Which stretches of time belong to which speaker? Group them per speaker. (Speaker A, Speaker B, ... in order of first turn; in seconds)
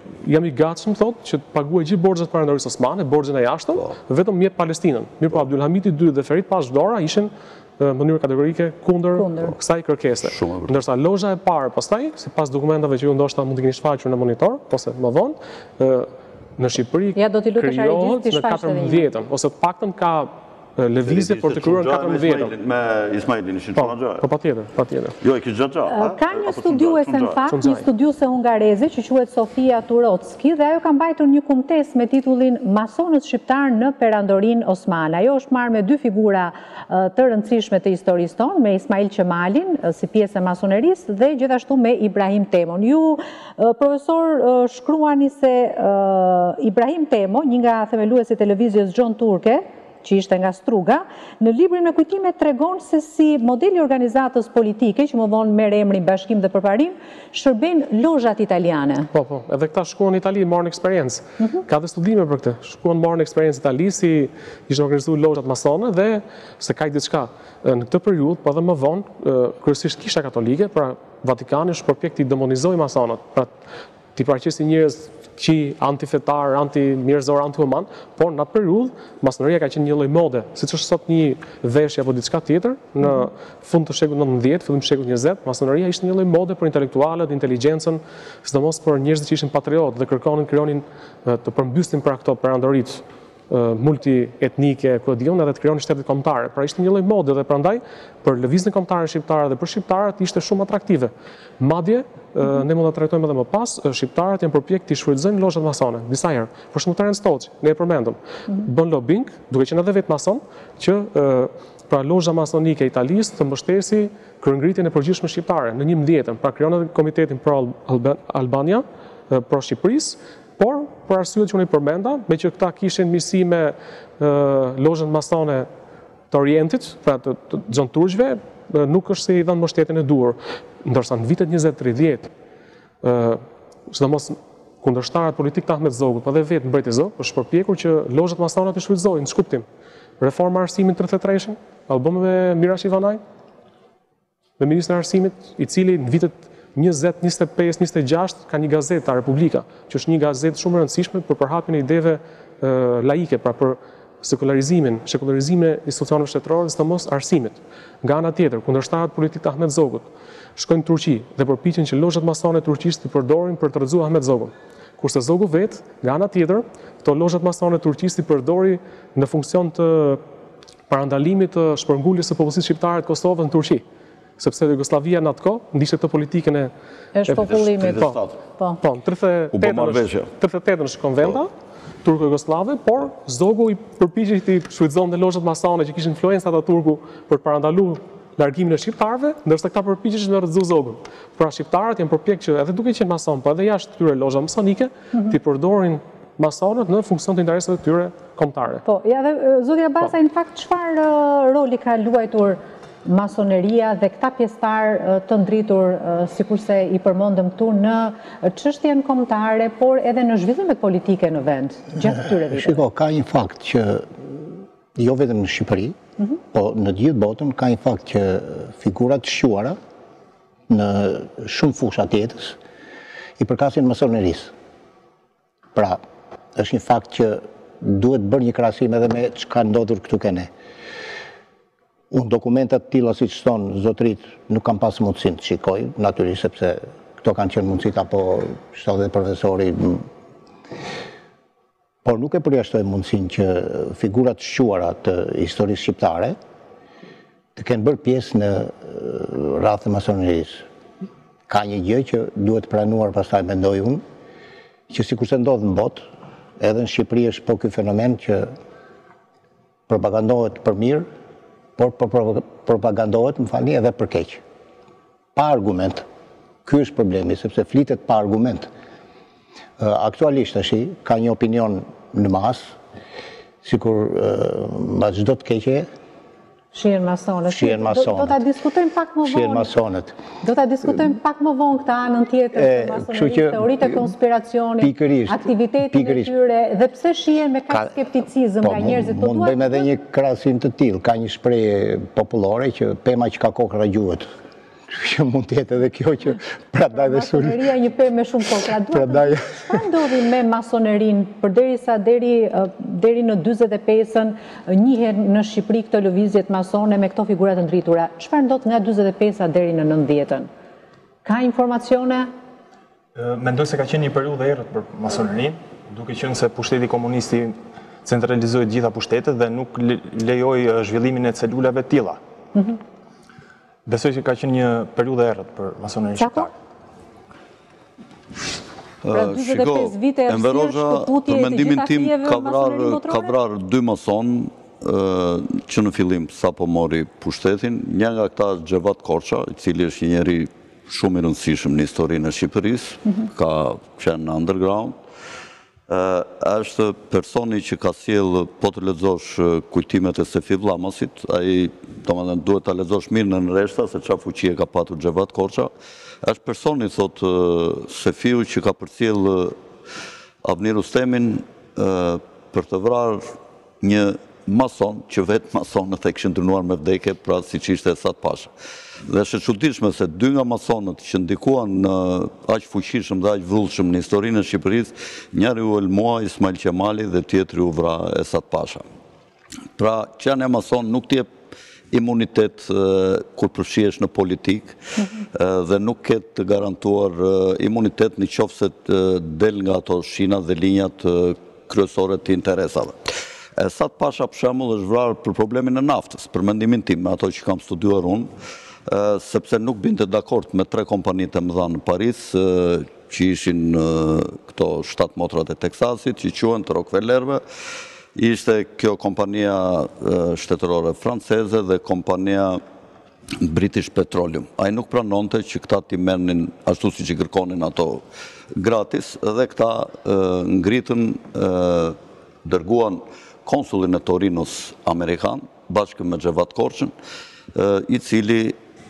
Speaker A: 0.2-22.5, 23.8-25.2, 27.5-27.9, 59.1-73.6, 74.2-125.7, 126.3-132.3, 133.0-139.7, 140.2-143.2, 144.6-170.2, 170.9-173.8, 174.4-176.7, 177.3-178.2, 178.8-181.5, 182.0-198.8
Speaker B: 9.2-9.6, 17.2-19.1, 25.9-59.1, 177.2-178.8, 198.8-212.8, 276.7-279.7, 280.4-289.9, 296.9-310.5, 311.2-312.3, 326.2-326.5, 329.1-333.3
Speaker C: 10.2-10.8, 21.0-24.3, 25.2-27.4, 177.4-178.4, 179.5-180.3, 329.0-345.0, 345.9-355.7, 356.2-359.6, 360.4-363.3, 363.8-368.5, 369.1-378.9, 379.8-381.3, 381.9-384.8, 385.3-398.3, 398.9-407.4, 408.1-412.6, 413.4-426.9, 427.5-428.6
Speaker D: 212.0-216.0, 216.5-219.8, 220.7-222.6, 223.4-224.5, 225.8-226.0, 226.6-230.5, 232.1-240.1, 242.1-246.4, 247.6-250.7, 251.5-254.0, 254.9-256.0, 256.6-258.5, 259.9-261.1, 261.8-264.4, 265.4-266.1, 266.6-268.7, 269.8-272.7, 273.6-275.9, 277.5-278.4, 279.2-280.1, 282.5-284.1, 284.8-286.3, 288.6-294.3, 294.9-297.8, 298.9-299.9
Speaker E: 313.1-322.2, 323.9-326.5